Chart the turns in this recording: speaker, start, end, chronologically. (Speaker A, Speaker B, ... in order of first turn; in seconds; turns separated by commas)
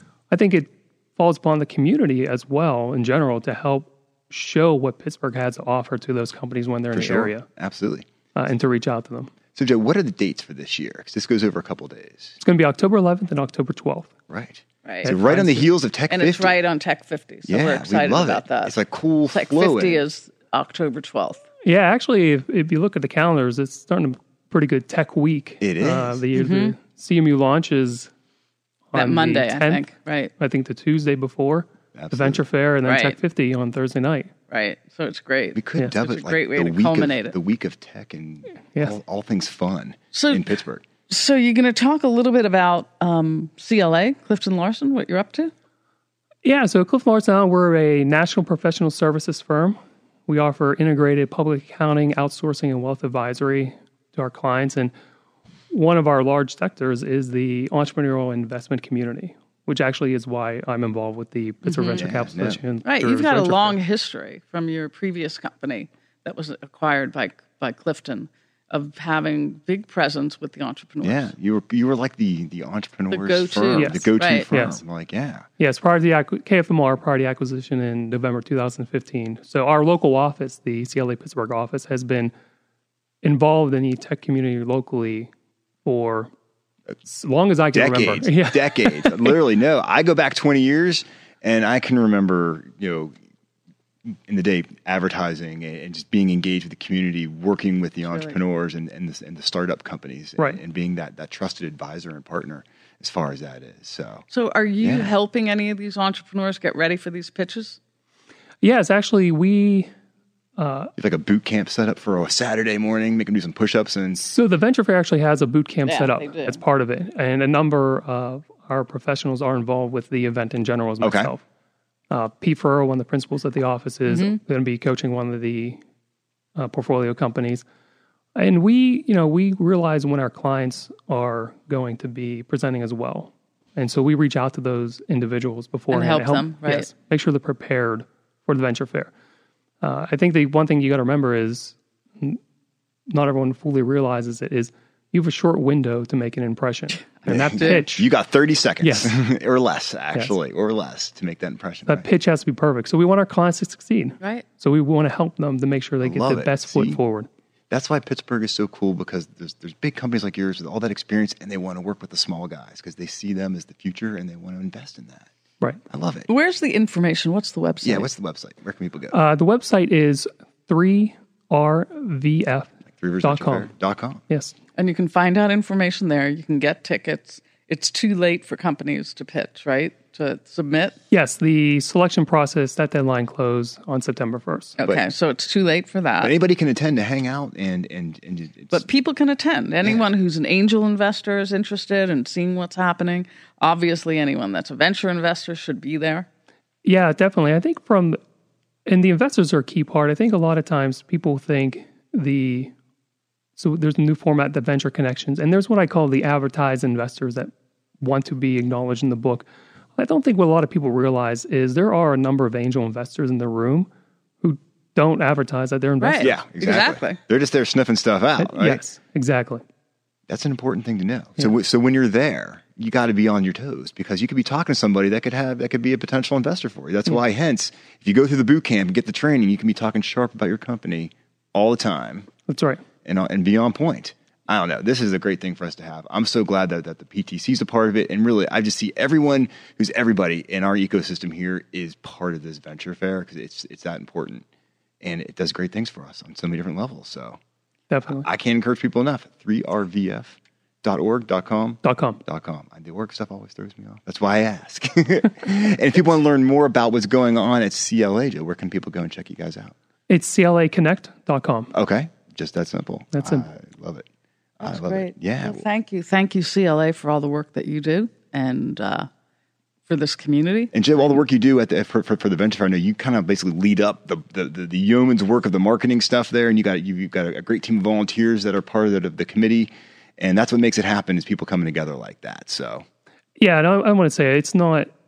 Speaker A: 0.3-7.5, Speaker B: 6.9-8.1, Speaker A: 8.3-9.3, Speaker B: 9.5-12.4, Speaker A: 12.4-14.1, Speaker B: 14.3-16.6, Speaker C: 14.8-15.1, Speaker A: 15.0-15.8, Speaker C: 16.1-18.8, Speaker B: 17.5-20.0, Speaker C: 19.3-21.4, Speaker A: 21.6-28.1, Speaker B: 25.6-26.2, Speaker C: 26.3-26.8, Speaker A: 28.9-29.9, Speaker C: 28.9-30.3, Speaker A: 30.4-34.3, Speaker B: 31.9-32.4, Speaker C: 32.8-33.2, Speaker C: 34.5-37.4, Speaker B: 35.5-40.8, Speaker C: 40.1-40.5, Speaker C: 41.1-45.5, Speaker A: 46.5-54.9, Speaker A: 55.7-63.8, Speaker C: 61.6-62.1, Speaker B: 61.9-62.6, Speaker C: 62.8-71.3, Speaker B: 71.0-75.5, Speaker C: 73.1-74.5, Speaker A: 73.8-74.8, Speaker A: 75.6-82.3, Speaker A: 83.2-85.3, Speaker A: 85.8-86.3, Speaker A: 87.0-89.4, Speaker B: 87.7-93.2, Speaker B: 94.3-104.3, Speaker C: 98.0-98.4, Speaker C: 104.3-107.8, Speaker B: 104.8-105.1, Speaker A: 108.6-109.9, Speaker A: 110.6-110.9, Speaker B: 111.0-114.3, Speaker A: 114.3-121.4, Speaker C: 115.8-116.6, Speaker B: 121.0-121.3, Speaker A: 122.1-125.8, Speaker C: 124.1-124.4, Speaker A: 126.6-127.6, Speaker A: 128.3-139.1, Speaker C: 135.9-136.9, Speaker A: 139.8-142.4, Speaker A: 143.1-148.1, Speaker B: 147.3-152.1, Speaker C: 147.6-147.8, Speaker A: 148.8-149.2, Speaker A: 151.9-157.3, Speaker C: 154.2-154.4, Speaker B: 156.0-157.0, Speaker B: 157.7-165.3, Speaker B: 165.9-166.3, Speaker C: 166.3-168.1, Speaker B: 167.8-169.2, Speaker A: 169.1-172.7, Speaker B: 172.9-174.2, Speaker A: 173.2-173.7, Speaker A: 174.3-174.5, Speaker C: 174.8-181.0, Speaker A: 181.1-184.8, Speaker C: 184.8-186.3, Speaker B: 186.2-188.8, Speaker C: 188.7-196.3, Speaker A: 196.8-198.2, Speaker A: 198.8-202.7, Speaker A: 203.6-213.9, Speaker A: 214.4-216.4, Speaker C: 216.0-217.2, Speaker B: 216.2-218.8, Speaker A: 218.4-219.6, Speaker B: 220.3-232.3, Speaker A: 232.5-232.8, Speaker B: 233.0-244.5, Speaker B: 245.0-247.4, Speaker A: 247.9-248.3, Speaker B: 248.1-259.7, Speaker A: 251.8-252.2, Speaker A: 260.1-261.7, Speaker B: 261.7-264.1, Speaker A: 263.1-263.4, Speaker B: 264.6-265.6, Speaker C: 264.6-269.1, Speaker C: 269.9-271.2, Speaker B: 270.7-282.9, Speaker A: 283.4-284.9